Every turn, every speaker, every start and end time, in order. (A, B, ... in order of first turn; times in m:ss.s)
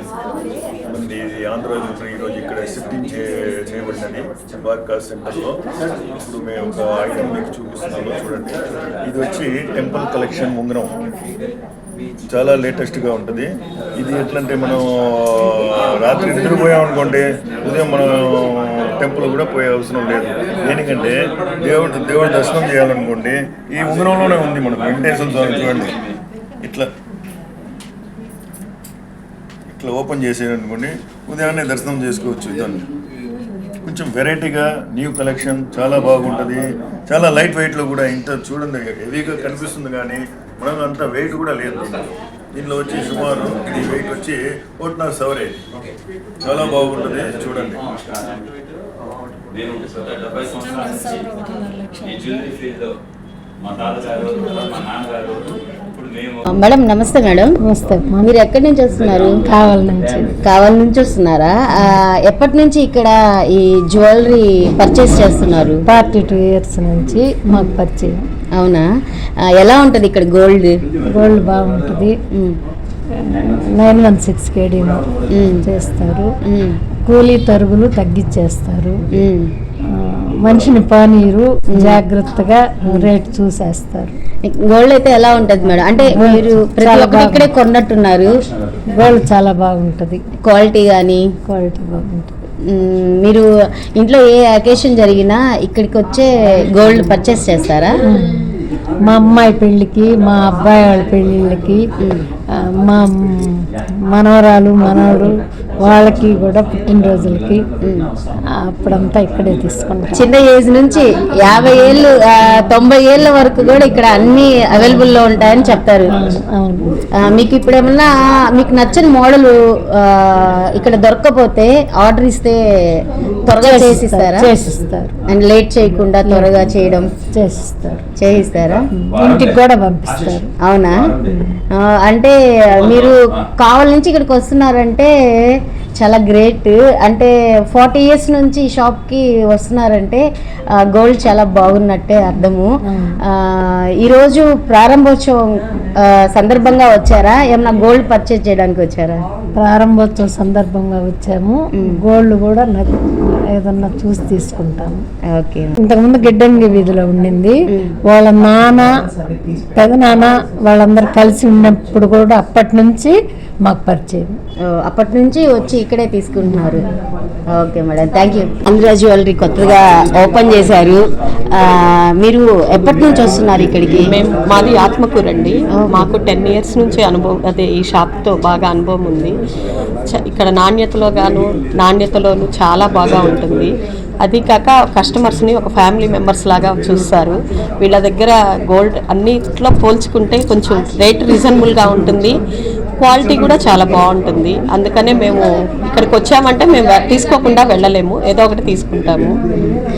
0:00.9-0:10.9 A
0:12.3-0:25.9 A
0:26.6-0:26.9 A
0:29.7-0:32.8 A
0:33.9-0:45.6 A
0:46.4-0:47.8 A
0:47.8-0:48.4 B
0:49.5-0:51.4 B
0:52.0-0:53.0 B
0:53.6-0:56.5 B
0:56.5-0:57.5 C
0:57.6-0:58.3 D
0:58.2-0:59.4 C
0:59.5-1:00.3 D
1:00.4-1:05.8 C
1:05.9-1:08.2 D
1:08.6-1:08.8 C
1:09.6-1:10.8 C
1:11.1-1:12.1 D
1:13.3-1:15.0 D
1:15.4-1:15.6 C
1:15.6-1:16.3 D
1:16.5-1:16.8 C
1:17.1-1:19.0 D
1:19.2-1:19.5 C
1:20.0-1:24.1 D
1:21.7-1:22.0 C
1:24.5-1:28.3 C
1:26.0-1:27.5 D
1:29.0-1:30.2 D
1:30.4-1:31.3 C
1:31.4-1:32.3 D
1:32.7-1:33.4 C
1:34.0-1:37.9 C
1:39.1-1:41.8 D
1:42.8-1:43.6 D
1:44.1-1:45.3 D
1:45.8-1:47.6 D
1:47.8-1:48.1 C
1:48.6-1:50.2 D
1:50.1-1:56.1 C
1:56.2-1:56.9 D
1:57.3-2:02.6 C
2:03.5-2:04.5 C
2:03.6-2:05.1 D
2:05.3-2:07.1 C
2:06.3-2:06.5 D
2:07.2-2:08.0 D
2:08.2-2:08.9 C
2:09.0-2:10.5 D
2:10.6-2:11.1 C
2:11.8-2:15.1 C
2:16.0-2:20.2 C
2:20.9-2:22.7 C
2:22.9-2:23.2 D
2:23.4-2:25.5 C
2:26.1-2:29.2 C
2:29.6-2:33.0 D
2:33.5-2:35.0 D
2:35.3-2:35.7 C
2:35.8-2:37.6 D
2:38.1-2:39.1 D
2:39.8-2:44.4 D
2:44.6-2:46.8 C
2:47.5-2:51.0 C
2:51.6-2:54.2 C
2:54.1-2:59.4 E
2:55.8-2:56.0 C
3:00.1-3:12.4 E
3:13.0-3:19.4 E